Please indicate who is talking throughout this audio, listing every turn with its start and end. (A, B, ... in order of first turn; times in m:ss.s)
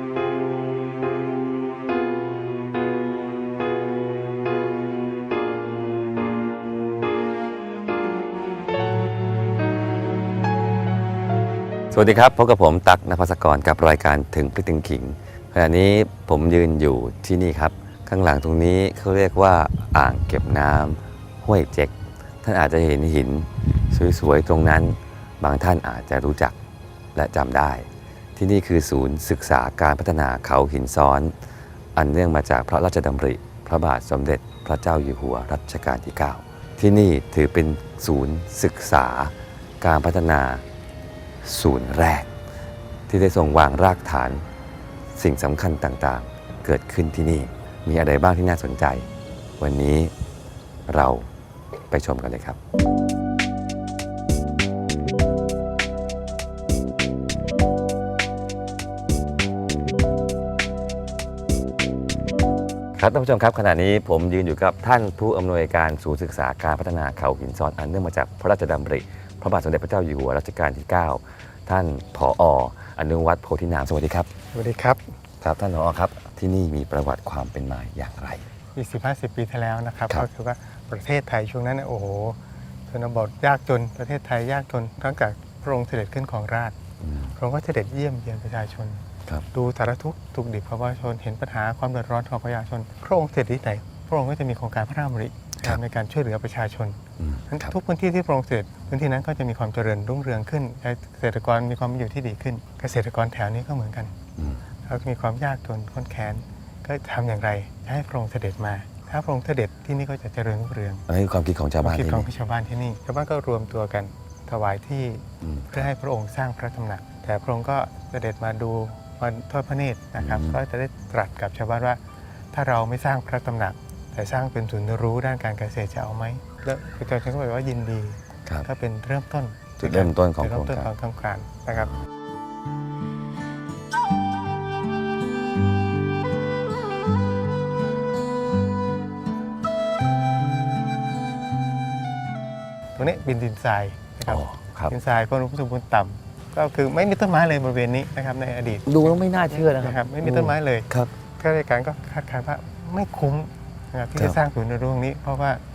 0:11.9-0:26.6 A
0:27.1-0:31.3 A
0:31.9-0:40.6 A
0:41.4-0:42.3 A
0:43.1-0:44.4 A
0:45.1-0:49.0 A
0:49.6-0:50.1 A
0:50.9-0:51.3 A
0:51.9-0:52.6 A
1:03.0-1:14.3 A
1:14.5-1:15.0 B
1:15.4-1:18.4 A
1:18.8-1:22.4 B
1:22.9-1:26.7 B
1:27.0-1:27.3 A
1:27.3-1:44.1 B
1:37.2-1:37.7 A
1:44.4-1:44.6 A
1:44.8-1:51.0 B
1:51.1-1:52.3 A
1:51.8-2:02.0 B
1:55.4-1:55.9 A
2:00.2-2:00.6 A
2:02.5-2:12.0 B
2:09.8-2:10.9 A
2:22.9-2:35.6 B
2:24.3-2:24.9 A
2:28.8-2:31.1 A